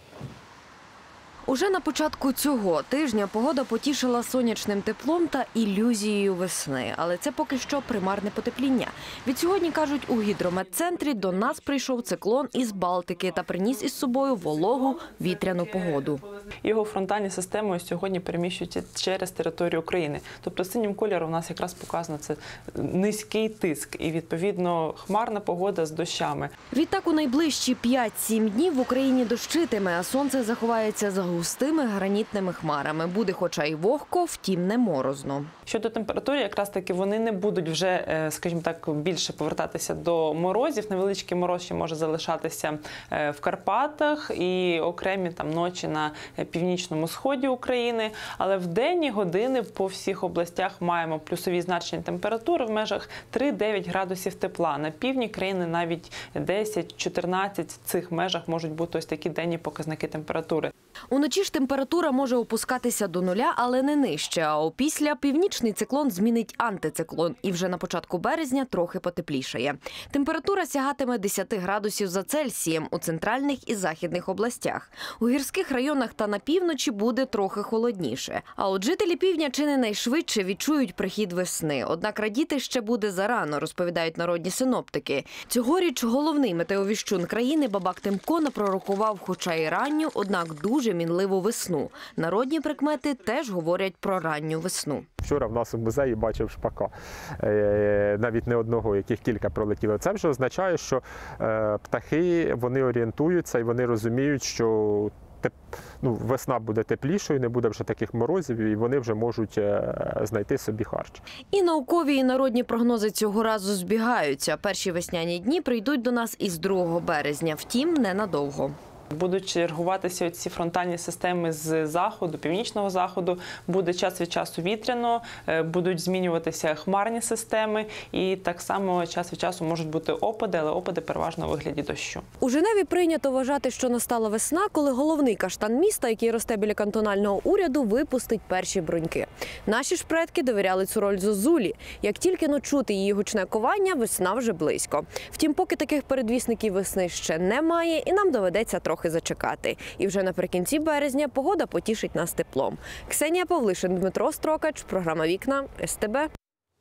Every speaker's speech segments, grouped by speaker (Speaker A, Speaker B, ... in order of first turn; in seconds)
Speaker A: 1.4-16.2, 26.7-35.5, 61.1-95.0, 111.5-118.8, 132.4-156.3
Speaker B: 16.6-26.5, 35.7-60.7, 119.1-132.2
Speaker C: 95.2-111.2